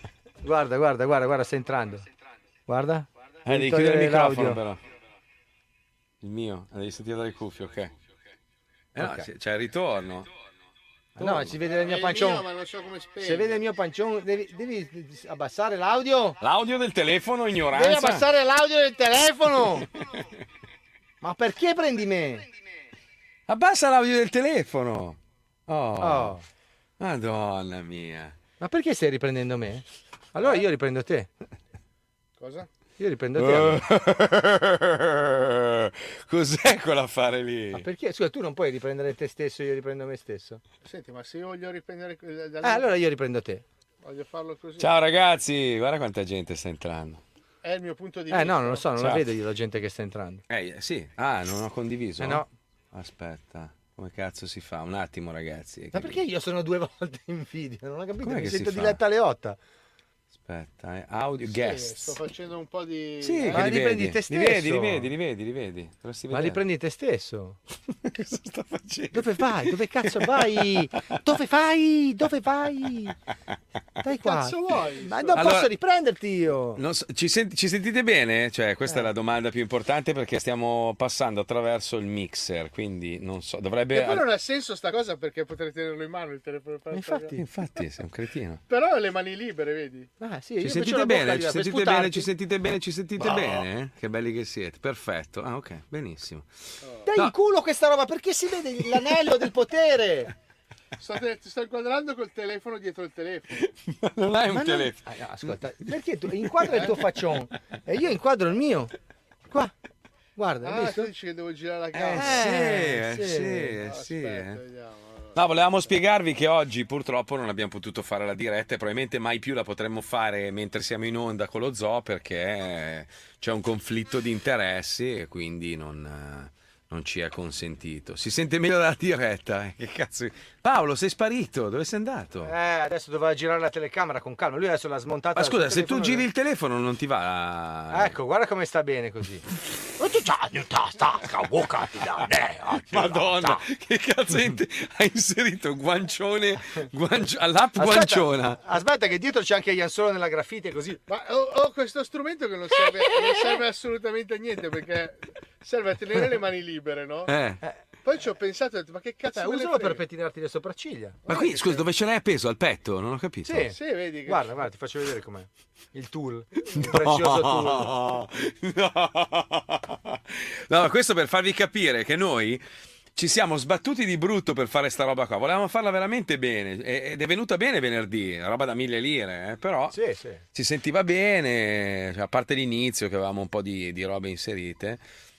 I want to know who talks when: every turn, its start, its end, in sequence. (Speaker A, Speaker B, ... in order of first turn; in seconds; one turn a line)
Speaker A: 0.4-2.1
Speaker A: 2.7-4.6
Speaker B: 3.5-4.8
Speaker B: 6.2-7.9
Speaker A: 9.0-9.3
Speaker B: 9.0-10.3
Speaker B: 11.2-11.6
Speaker A: 11.2-12.5
Speaker C: 11.6-13.6
Speaker A: 13.2-16.4
Speaker B: 16.4-18.3
Speaker A: 17.7-19.9
Speaker B: 19.6-20.4
Speaker A: 21.2-22.5
Speaker B: 23.5-26.4
Speaker A: 26.0-26.4
Speaker B: 27.0-28.4
Speaker A: 28.6-31.3
Speaker C: 32.4-32.7
Speaker A: 33.0-33.8
Speaker B: 33.4-37.9
Speaker A: 37.7-40.6
Speaker C: 40.8-42.9
Speaker A: 42.6-43.6
Speaker C: 44.0-45.0
Speaker B: 44.8-47.2
Speaker C: 47.6-49.0
Speaker A: 48.3-50.4
Speaker B: 49.0-49.3
Speaker B: 50.5-56.2
Speaker A: 52.2-52.5
Speaker A: 55.9-59.6
Speaker B: 58.2-59.0
Speaker B: 60.3-62.2
Speaker C: 61.5-63.7
Speaker B: 63.2-66.6
Speaker A: 63.4-65.1
Speaker A: 66.3-67.6
Speaker B: 67.9-71.3
Speaker A: 69.1-73.2
Speaker A: 74.0-76.8
Speaker C: 74.2-75.5
Speaker B: 75.3-75.7
Speaker B: 76.8-84.3
Speaker C: 83.9-87.4
Speaker A: 86.9-87.4
Speaker B: 87.3-88.6
Speaker C: 88.7-90.1
Speaker A: 90.2-92.3
Speaker B: 90.6-96.5
Speaker C: 93.2-93.6
Speaker C: 96.8-97.1
Speaker A: 97.0-100.3
Speaker B: 98.8-99.4
Speaker C: 101.0-103.7
Speaker B: 103.6-107.2
Speaker A: 104.5-108.9
Speaker A: 110.4-111.1
Speaker C: 110.6-112.5
Speaker B: 111.9-114.6
Speaker A: 112.1-113.8
Speaker C: 113.7-115.5
Speaker B: 115.3-132.5
Speaker A: 132.4-136.3
Speaker B: 135.3-138.2
Speaker A: 137.9-139.4
Speaker A: 140.0-143.7
Speaker B: 142.2-148.6
Speaker A: 147.8-151.0
Speaker C: 151.1-157.3
Speaker A: 152.8-153.6
Speaker B: 157.3-157.6
Speaker C: 158.0-160.0
Speaker A: 159.3-161.8
Speaker B: 161.3-163.7
Speaker A: 163.4-168.0
Speaker C: 163.7-164.6
Speaker B: 166.7-172.6
Speaker B: 173.2-180.0
Speaker A: 179.9-180.4
Speaker B: 180.5-185.0